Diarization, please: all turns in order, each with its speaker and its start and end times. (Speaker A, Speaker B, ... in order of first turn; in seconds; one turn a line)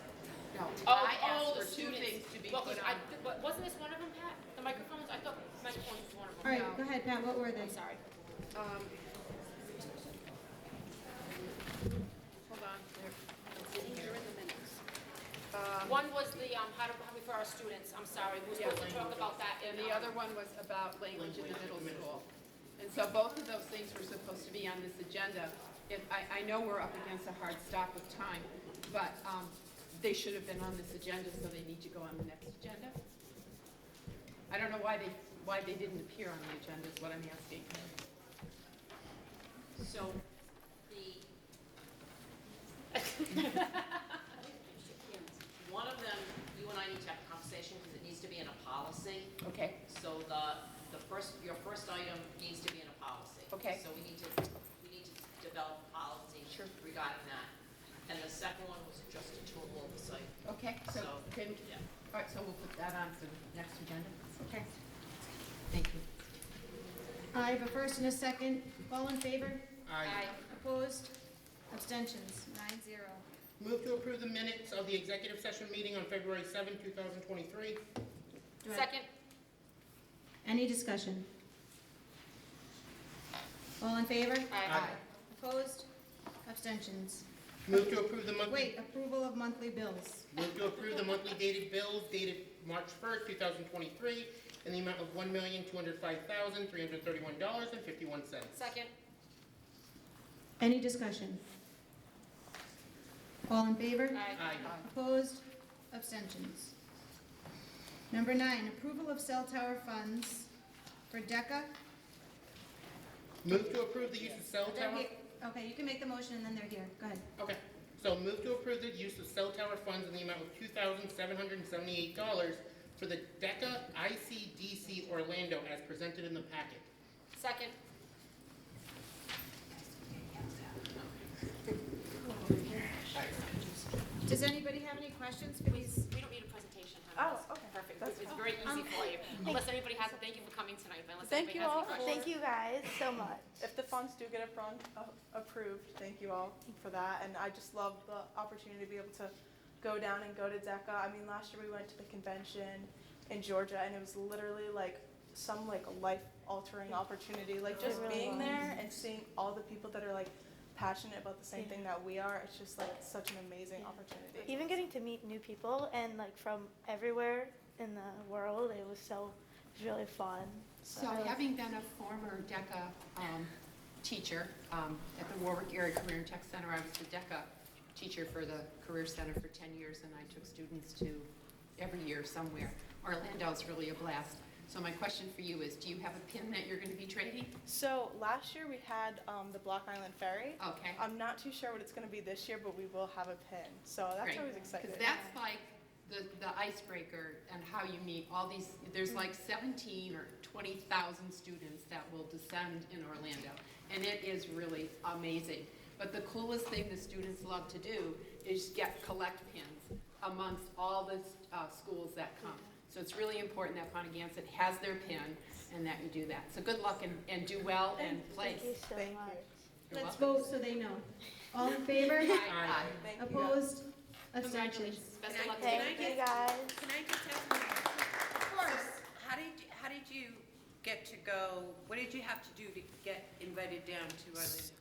Speaker A: 0.5-3.0
Speaker B: 0.8-6.6
Speaker C: 6.4-7.8
Speaker A: 6.4-6.8
Speaker B: 7.5-8.0
Speaker A: 8.5-8.9
Speaker A: 12.4-14.7
Speaker A: 15.5-16.0
Speaker B: 15.8-20.2
Speaker A: 18.5-33.0
Speaker D: 18.9-19.2
Speaker D: 21.1-22.2
Speaker A: 34.5-37.9
Speaker E: 39.8-40.2
Speaker E: 40.9-41.2
Speaker B: 42.9-45.3
Speaker E: 45.3-49.3
Speaker A: 49.4-49.8
Speaker E: 49.9-57.5
Speaker A: 53.5-53.8
Speaker A: 56.5-56.7
Speaker E: 58.0-60.3
Speaker A: 60.4-64.3
Speaker E: 60.8-61.8
Speaker C: 64.4-64.7
Speaker A: 65.7-66.0
Speaker C: 67.3-69.8
Speaker D: 69.8-70.2
Speaker B: 70.0-70.4
Speaker C: 70.4-71.1
Speaker C: 71.7-73.2
Speaker D: 73.6-77.8
Speaker C: 78.6-78.9
Speaker B: 78.7-79.1
Speaker C: 80.4-81.3
Speaker C: 83.8-85.9
Speaker B: 84.5-84.8
Speaker D: 84.7-85.0
Speaker C: 86.4-87.2
Speaker D: 87.7-88.7
Speaker C: 88.4-90.3
Speaker D: 90.3-98.6
Speaker B: 98.5-98.9
Speaker C: 100.6-101.4
Speaker C: 103.5-106.7
Speaker B: 104.1-104.7
Speaker D: 104.3-104.8
Speaker C: 108.1-110.5
Speaker C: 111.1-111.7
Speaker D: 113.4-115.1
Speaker C: 114.7-117.2
Speaker D: 117.4-126.9
Speaker B: 127.3-127.7
Speaker F: 132.2-133.0
Speaker C: 134.2-136.0
Speaker B: 135.6-142.3
Speaker F: 137.2-139.1
Speaker C: 138.6-139.0
Speaker F: 141.2-142.3
Speaker G: 141.9-143.6
Speaker F: 143.6-164.8
Speaker G: 157.7-158.9
Speaker G: 161.5-161.8
Speaker G: 163.8-171.4
Speaker F: 170.8-171.2
Speaker A: 170.9-187.5
Speaker F: 187.6-195.2
Speaker A: 190.6-191.0
Speaker A: 194.2-218.8
Speaker G: 194.5-195.3
Speaker G: 212.4-212.7
Speaker G: 218.0-219.5
Speaker F: 218.7-219.5
Speaker A: 219.9-220.5
Speaker C: 219.9-222.4
Speaker B: 221.9-223.0
Speaker D: 222.4-223.0
Speaker F: 222.9-223.7
Speaker C: 223.1-225.1
Speaker B: 224.4-225.8
Speaker H: 225.3-226.1
Speaker G: 225.6-226.9
Speaker H: 227.2-227.5
Speaker H: 228.7-229.9
Speaker H: 230.4-231.0
Speaker H: 231.7-232.2
Speaker H: 232.9-234.6